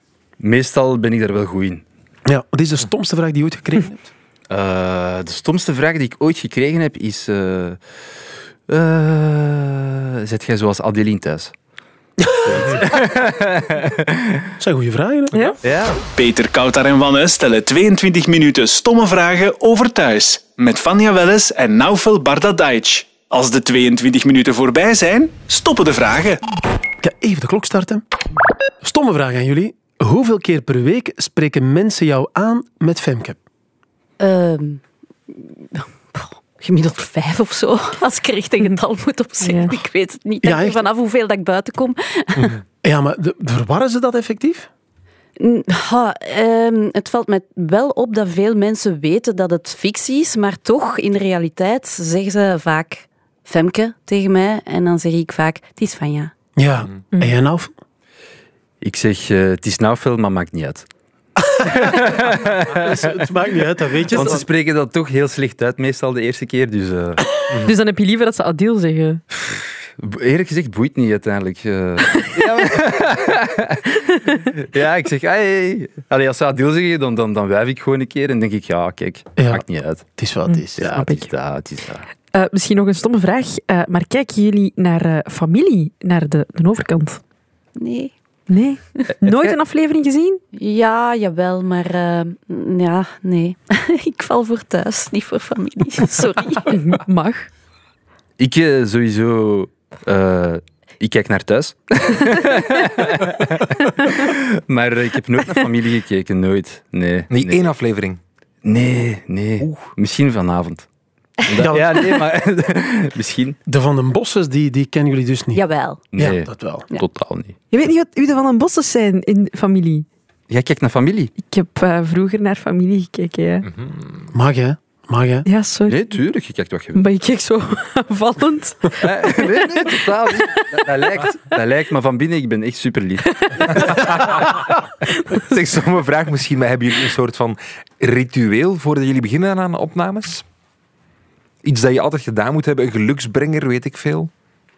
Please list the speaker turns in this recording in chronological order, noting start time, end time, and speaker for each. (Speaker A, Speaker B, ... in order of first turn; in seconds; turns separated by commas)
Speaker A: 0.4-1.8, Speaker B: 2.2-4.1, Speaker A: 4.5-7.8, Speaker A: 8.7-11.5, Speaker B: 12.2-12.8, Speaker A: 12.4-14.5, Speaker B: 14.6-15.5, Speaker A: 15.6-16.0, Speaker C: 16.1-26.4, Speaker B: 27.0-28.0, Speaker B: 28.8-33.4, Speaker D: 34.2-42.5, Speaker E: 39.4-39.7, Speaker B: 40.4-40.8, Speaker B: 42.8-44.7, Speaker D: 45.4-56.3, Speaker B: 56.5-57.7, Speaker A: 58.8-60.9, Speaker B: 61.4-64.5, Speaker A: 61.5-62.9, Speaker A: 64.1-67.3, Speaker E: 67.5-69.2, Speaker A: 69.3-80.0, Speaker B: 79.4-79.6, Speaker B: 80.2-80.9, Speaker E: 80.5-81.3, Speaker A: 80.8-82.1, Speaker E: 82.3-87.2, Speaker D: 87.8-88.1, Speaker E: 88.5-90.4, Speaker D: 90.5-96.8, Speaker E: 96.7-97.5, Speaker A: 98.4-107.7, Speaker F: 107.3-108.2, Speaker A: 108.6-110.8, Speaker A: 111.4-113.6, Speaker B: 111.5-112.2, Speaker B: 113.7-115.6, Speaker D: 115.5-116.1, Speaker A: 116.1-117.6, Speaker B: 116.2-116.9, Speaker E: 117.7-120.0, Speaker A: 120.5-121.3, Speaker E: 121.4-123.7, Speaker F: 123.7-124.3, Speaker B: 124.3-125.5, Speaker E: 125.5-126.2, Speaker A: 125.9-127.0, Speaker E: 126.9-131.0, Speaker A: 128.9-134.0, Speaker E: 133.3-133.7, Speaker F: 133.8-134.6, Speaker F: 135.3-140.4, Speaker F: 141.6-144.3